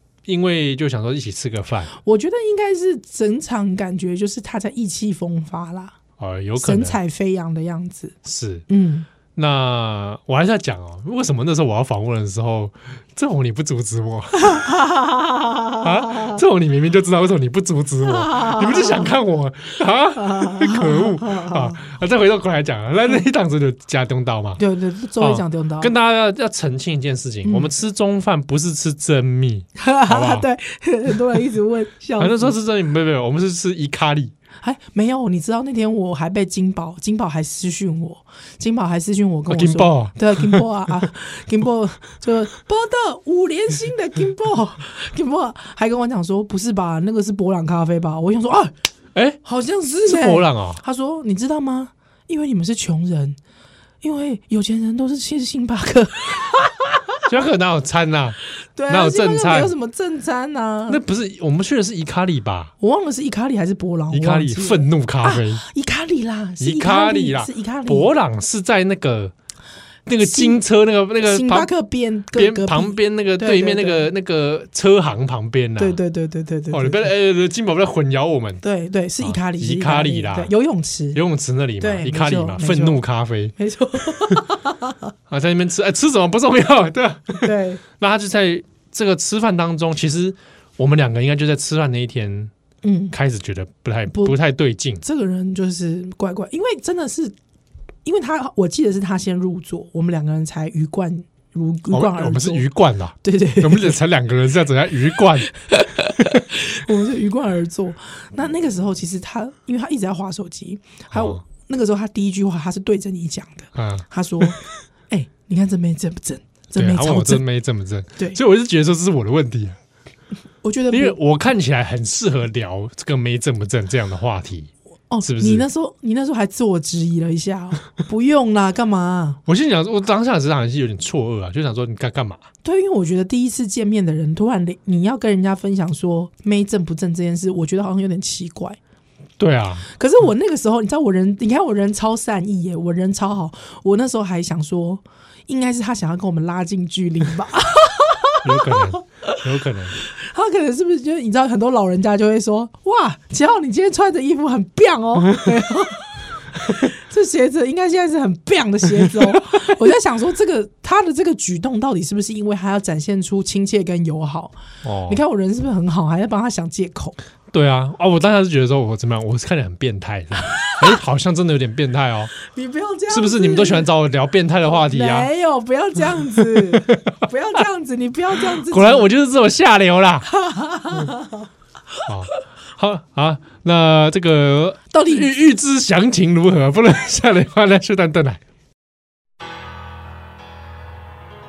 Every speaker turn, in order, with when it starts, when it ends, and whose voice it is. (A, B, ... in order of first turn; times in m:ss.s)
0:00.3-0:01.9 A
0:02.0-0:06.0 B
0:06.2-0:07.0 A
0:06.6-0:08.2 B
0:08.2-0:08.6 A
0:08.7-0:09.1 B
0:09.4-0:14.7 A
0:14.5-0:16.4 B
0:15.8-0:24.6 A
0:18.0-0:19.2 B
0:20.2-0:21.8 B
0:24.6-0:25.9 B
0:25.2-0:30.5 A
0:27.4-0:27.7 B
0:29.8-0:32.6 B
0:32.2-0:34.3 A
0:34.6-0:48.7 B
0:39.5-0:40.7 A
0:49.2-0:49.4 A
0:49.4-0:53.4 B
0:50.0-0:50.8 A
0:54.0-0:57.2 B
0:57.3-0:59.7 A
0:58.8-1:01.0 B
1:00.9-1:02.7 A
1:02.8-1:08.1 B
1:04.1-1:05.6 A
1:06.6-1:09.3 A
1:10.1-1:11.7 A
1:10.2-1:10.6 B
1:11.2-1:14.1 B
1:12.3-1:16.0 A
1:15.8-1:17.1 B
1:16.7-1:18.6 A
1:18.6-1:21.2 B
1:19.2-1:20.5 A
1:21.1-1:24.4 A
1:21.8-1:23.0 B
1:23.6-1:25.0 B
1:25.3-1:32.5 A
1:27.4-1:27.8 B
1:32.8-1:33.2 B
1:33.1-1:35.0 A
1:34.1-1:34.4 B
1:35.0-1:37.3 B
1:38.0-1:42.7 B
1:41.9-1:45.5 A
1:43.2-1:44.0 B
1:46.4-1:57.4 B
1:51.1-1:51.4 A
1:53.8-1:54.6 A
1:56.8-1:59.8 A
2:00.6-2:01.2 B
2:00.9-2:04.7 A
2:05.1-2:09.4 B
2:05.2-2:05.7 A
2:09.4-2:12.4 A
2:12.6-2:18.8 B
2:19.4-2:19.9 A
2:20.0-2:29.4 B
2:28.4-2:30.0 A
2:30.0-2:47.2 B
2:39.1-2:39.4 A
2:44.8-2:45.2 A
2:47.5-2:52.3 A
2:50.6-2:51.0 B
2:52.5-2:53.9 B
2:53.1-2:55.3 A
2:54.7-2:59.1 B
2:56.4-2:57.1 A
2:58.5-3:00.3 A
3:00.3-3:01.5 B
3:02.1-3:08.4 A
3:04.9-3:05.3 B